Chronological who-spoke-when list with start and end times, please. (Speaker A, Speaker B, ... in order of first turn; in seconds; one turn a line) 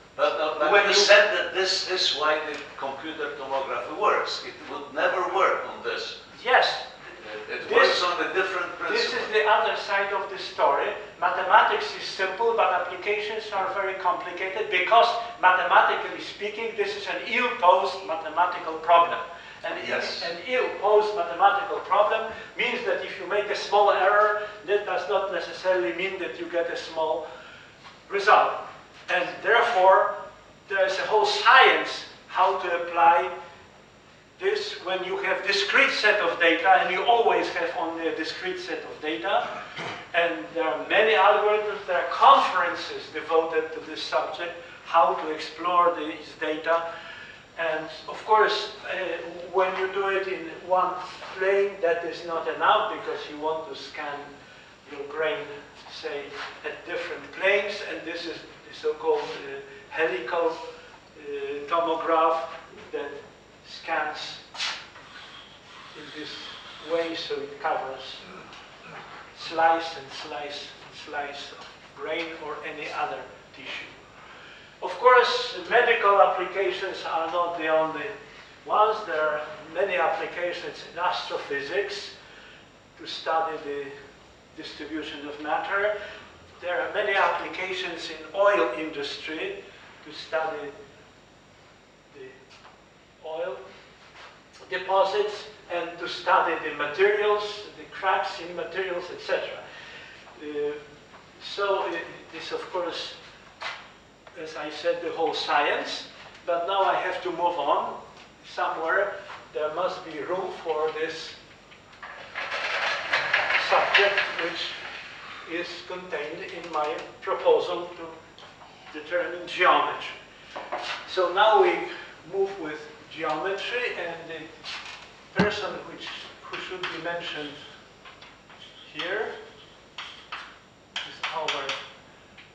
Speaker A: 0.2-6.2
Speaker B: 0.6-1.1
Speaker B: 6.3-7.0
Speaker A: 7.2-9.3
Speaker B: 7.6-8.1
Speaker B: 8.9-27.3
Speaker A: 19.7-20.3
Speaker B: 28.1-33.3
Speaker B: 34.4-39.6
Speaker B: 40.1-46.9
Speaker B: 47.6-54.3
Speaker B: 54.8-60.6
Speaker B: 61.1-64.4
Speaker B: 65.9-68.3
Speaker B: 69.3-74.0
Speaker B: 74.8-82.1
Speaker B: 83.0-84.0
Speaker B: 84.5-86.0
Speaker B: 86.6-90.8
Speaker B: 92.1-92.4
Speaker B: 93.2-93.6
Speaker B: 94.7-99.6
Speaker B: 100.3-100.8
Speaker B: 101.4-103.2
Speaker B: 104.3-111.4
Speaker B: 113.5-114.8
Speaker B: 115.4-118.2
Speaker B: 118.9-120.2
Speaker B: 121.0-124.5
Speaker B: 125.3-127.6
Speaker B: 128.8-129.3
Speaker B: 131.0-131.8